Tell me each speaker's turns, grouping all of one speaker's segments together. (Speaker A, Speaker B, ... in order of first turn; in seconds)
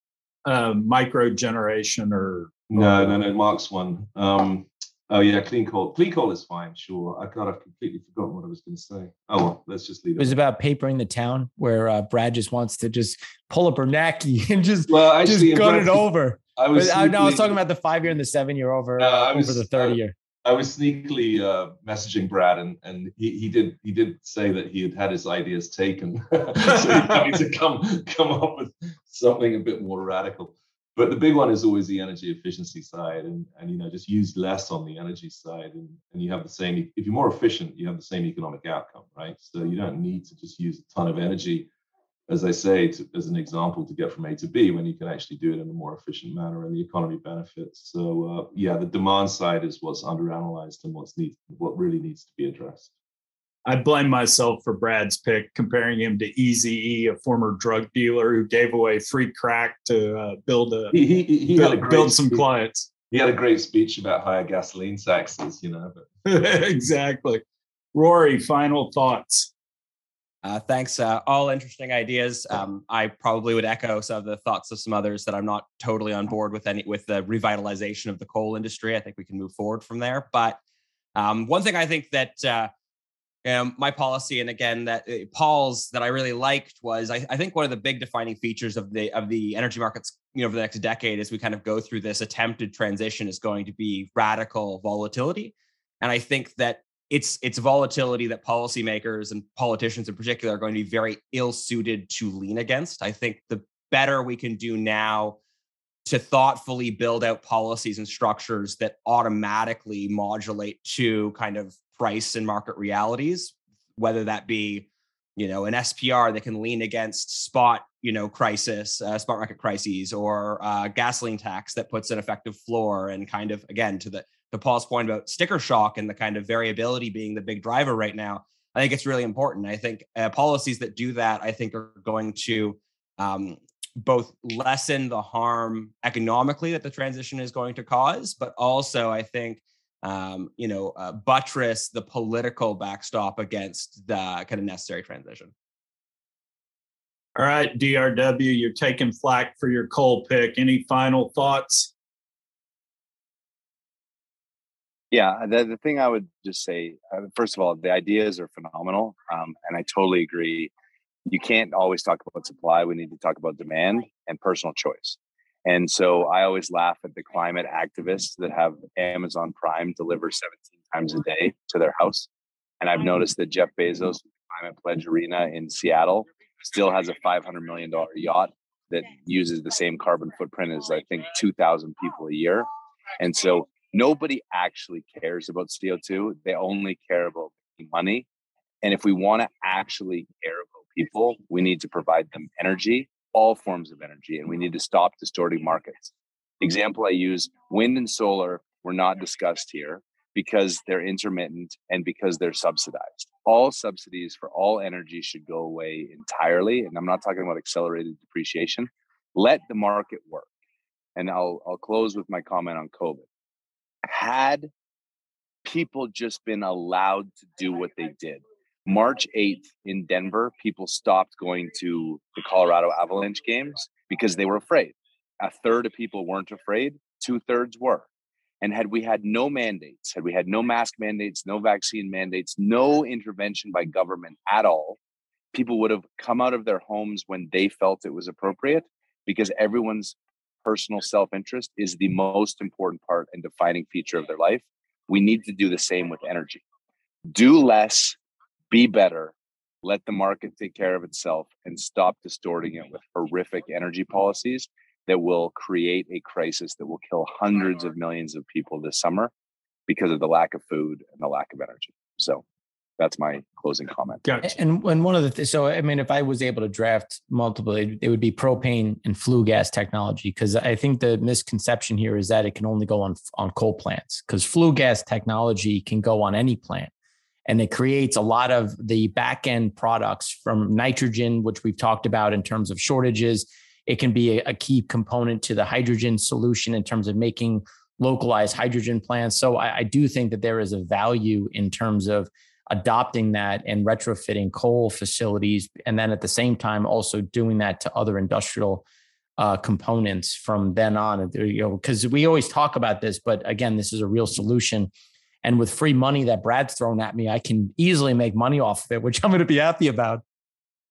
Speaker A: 0.5-3.1, 53.6-61.0, 61.5-62.9, 66.2-67.4, 67.9-69.5, 147.3-151.9, 264.2-264.5
Speaker B: 2.7-10.3, 14.9-17.6, 19.0-41.7, 42.3-52.9, 60.9-62.4, 63.1-66.0
Speaker C: 10.2-20.1, 264.4-276.9, 277.4-298.8, 299.4-304.9, 305.4-310.2
Speaker D: 70.4-80.6, 81.2-82.7, 83.4-105.4, 106.0-145.5
Speaker E: 155.1-160.7, 161.2-172.3, 172.8-188.3, 188.8-210.5, 211.2-213.3, 214.1-214.7, 215.6-228.1, 228.6-235.0, 235.5-246.6, 247.3-248.2, 248.7-259.3, 259.9-262.4, 263.0-264.2